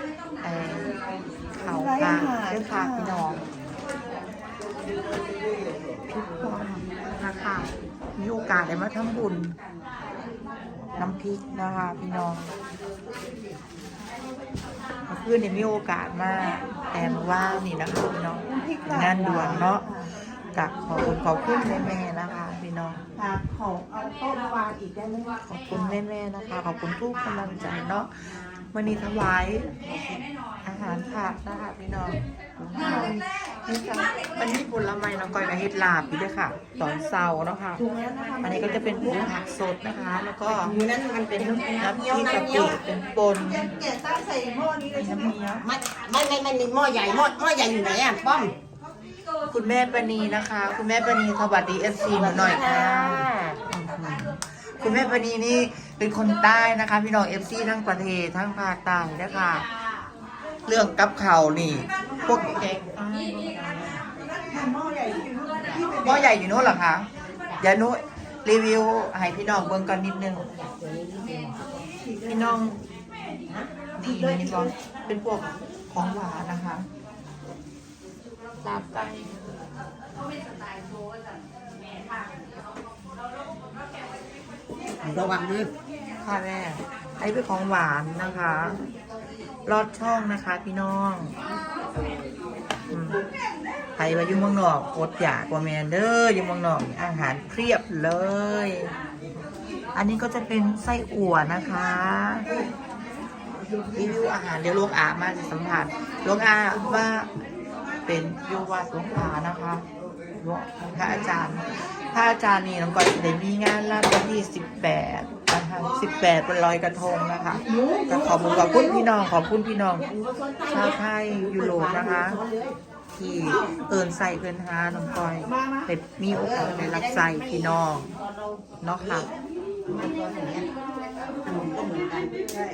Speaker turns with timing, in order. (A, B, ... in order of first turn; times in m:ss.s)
0:00.4-0:00.9 A
0:01.6-0:03.4 A
0:01.7-0:03.2 B
0:06.1-0:09.5 A
0:11.0-0:12.5 A
0:15.1-0:23.0 A
0:18.5-0:19.8 B
0:23.2-0:25.4 B
0:25.4-0:29.8 A
0:30.6-0:37.8 A
0:37.8-0:39.3 B
0:38.4-0:40.8 A
0:40.6-0:42.8 C
0:41.3-0:43.8 A
0:43.6-0:45.3 B
0:44.9-0:45.7 A
0:45.6-0:48.6 C
0:49.5-0:59.7 A
0:52.2-0:53.6 C
1:00.6-1:04.0 A
1:04.4-1:06.1 B
1:05.9-1:07.1 A
1:07.6-1:10.5 A
1:10.5-1:11.6 C
1:12.2-1:12.8 A
1:14.0-1:16.9 A
1:18.6-1:19.4 A
1:25.0-1:25.7 C
1:26.2-1:28.8 A
1:29.6-1:31.4 A
1:32.9-1:33.2 A
1:34.0-1:38.9 A
1:39.9-1:42.5 A
1:43.9-1:47.3 A
1:48.0-1:49.8 A
1:50.4-2:00.1 A
1:57.7-1:59.0 C
2:00.0-2:02.8 C
2:00.6-2:02.4 A
2:03.1-2:08.1 A
2:06.3-2:09.2 C
2:08.8-2:09.3 A
2:09.8-2:10.7 C
2:11.4-2:12.4 C